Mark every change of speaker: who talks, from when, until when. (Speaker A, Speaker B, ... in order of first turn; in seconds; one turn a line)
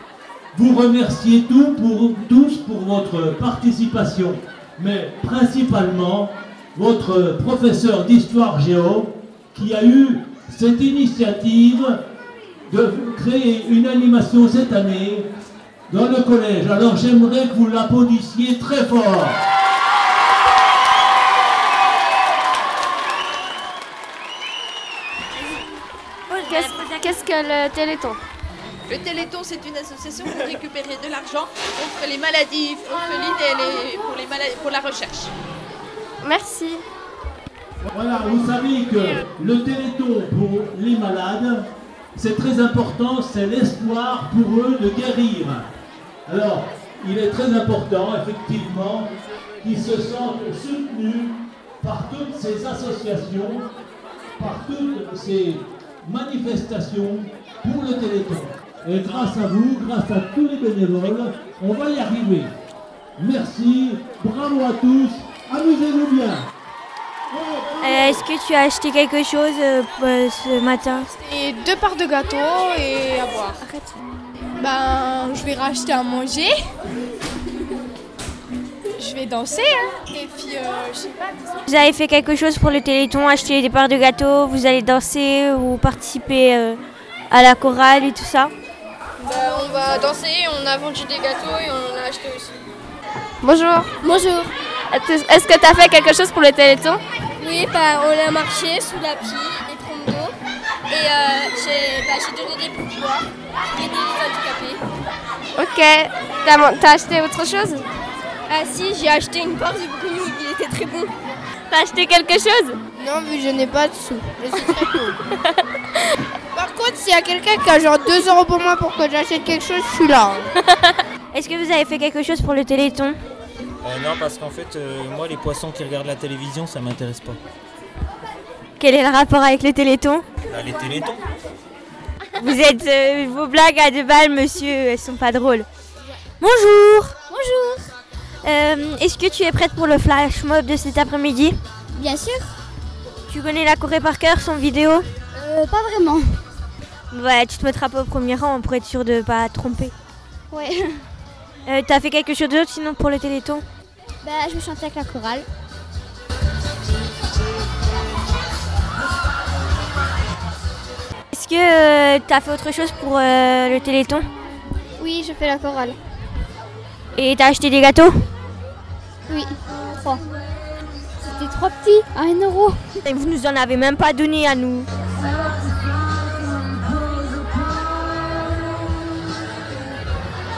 Speaker A: 0.5-12.0
Speaker A: 12.7-15.3
Speaker A: 15.9-19.4
Speaker B: 26.3-28.2
Speaker C: 28.9-35.3
Speaker B: 36.2-36.8
Speaker A: 37.8-45.7
Speaker A: 46.3-49.1
Speaker A: 49.6-53.7
Speaker A: 54.4-62.5
Speaker A: 63.2-66.5
Speaker A: 67.3-68.2
Speaker D: 67.8-71.1
Speaker E: 71.2-73.6
Speaker E: 74.5-76.5
Speaker E: 79.0-81.3
Speaker D: 81.7-88.5
Speaker F: 89.2-92.5
Speaker B: 93.4-93.9
Speaker F: 94.0-94.5
Speaker B: 94.9-97.0
Speaker F: 97.4-100.3
Speaker F: 100.9-104.8
Speaker B: 105.5-107.8
Speaker F: 108.5-111.1
Speaker D: 111.7-112.8
Speaker G: 113.0-115.2
Speaker G: 116.5-120.5
Speaker D: 121.3-123.1
Speaker H: 123.8-127.4
Speaker D: 128.8-130.2
Speaker H: 130.5-131.2
Speaker D: 132.4-135.7
Speaker D: 136.4-137.1
Speaker I: 137.3-137.9
Speaker D: 138.4-141.5
Speaker I: 141.9-142.5
Speaker D: 143.3-145.1
Speaker I: 145.3-146.4
Speaker D: 147.1-149.9
Speaker I: 150.5-151.0
Speaker D: 151.7-153.6
Speaker I: 154.2-155.4
Speaker D: 161.3-164.3
Speaker I: 165.0-166.0
Speaker D: 167.2-168.1
Speaker I: 169.3-170.2
Speaker I: 171.2-172.8
Speaker D: 173.1-174.9
Speaker I: 175.2-179.3